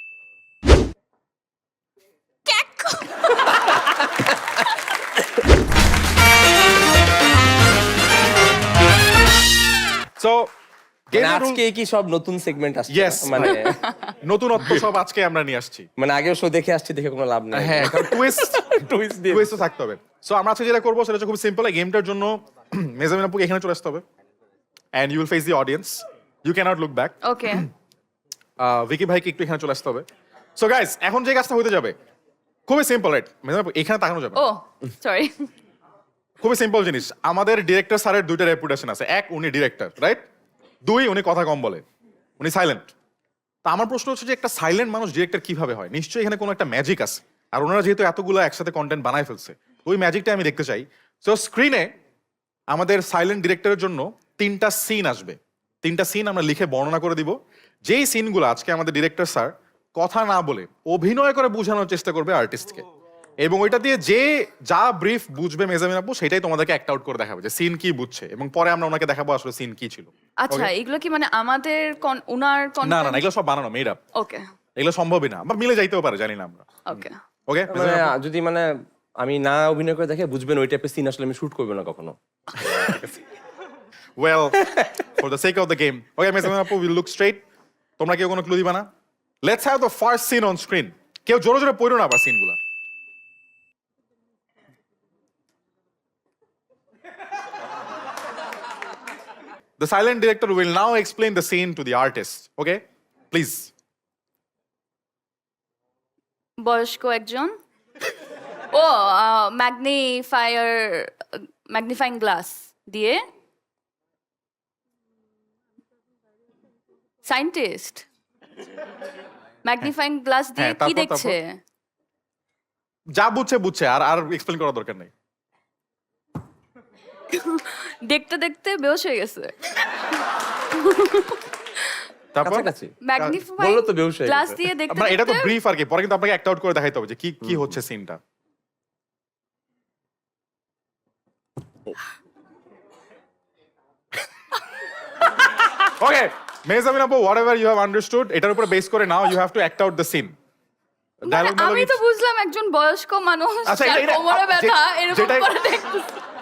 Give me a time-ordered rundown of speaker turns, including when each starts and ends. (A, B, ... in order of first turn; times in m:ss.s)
0:02.4-0:03.9 A
0:10.2-0:10.5 B
0:11.1-0:11.6 B
0:11.1-0:13.8 C
0:12.9-0:15.9 B
0:13.4-0:14.1 A
0:14.6-0:14.8 C
0:16.0-0:19.6 C
0:17.5-0:24.0 B
0:24.9-0:27.7 B
0:27.2-0:27.7 A
0:28.6-0:31.9 B
0:32.7-0:34.4 B
0:34.3-0:35.5 A
0:36.4-0:40.2 B
0:40.8-0:41.8 B
0:42.4-0:42.9 B
0:43.6-0:51.9 B
0:52.7-1:02.8 B
1:03.4-1:10.7 B
1:10.4-1:13.2 A
1:12.8-1:14.0 B
1:14.1-1:14.4 A
1:14.8-1:18.1 B
1:16.8-1:17.2 A
1:17.7-1:22.2 C
1:22.7-1:23.1 B
1:24.2-1:27.4 B
1:28.0-1:28.9 B
1:29.4-1:32.6 B
1:39.8-1:43.7 B
1:46.6-1:47.6 A
1:48.7-1:53.2 A
1:57.2-1:58.0 A
1:59.6-2:01.6 A
2:00.6-2:01.4 B
2:03.1-2:05.1 B
2:07.3-2:12.0 A
2:12.3-2:13.4 B
2:12.4-2:12.9 C
2:13.0-2:15.6 A
2:13.6-2:14.6 C
2:14.9-2:18.2 B
2:25.8-2:30.3 B
2:31.2-2:32.0 B
2:31.2-2:36.1 A
2:33.6-2:35.5 B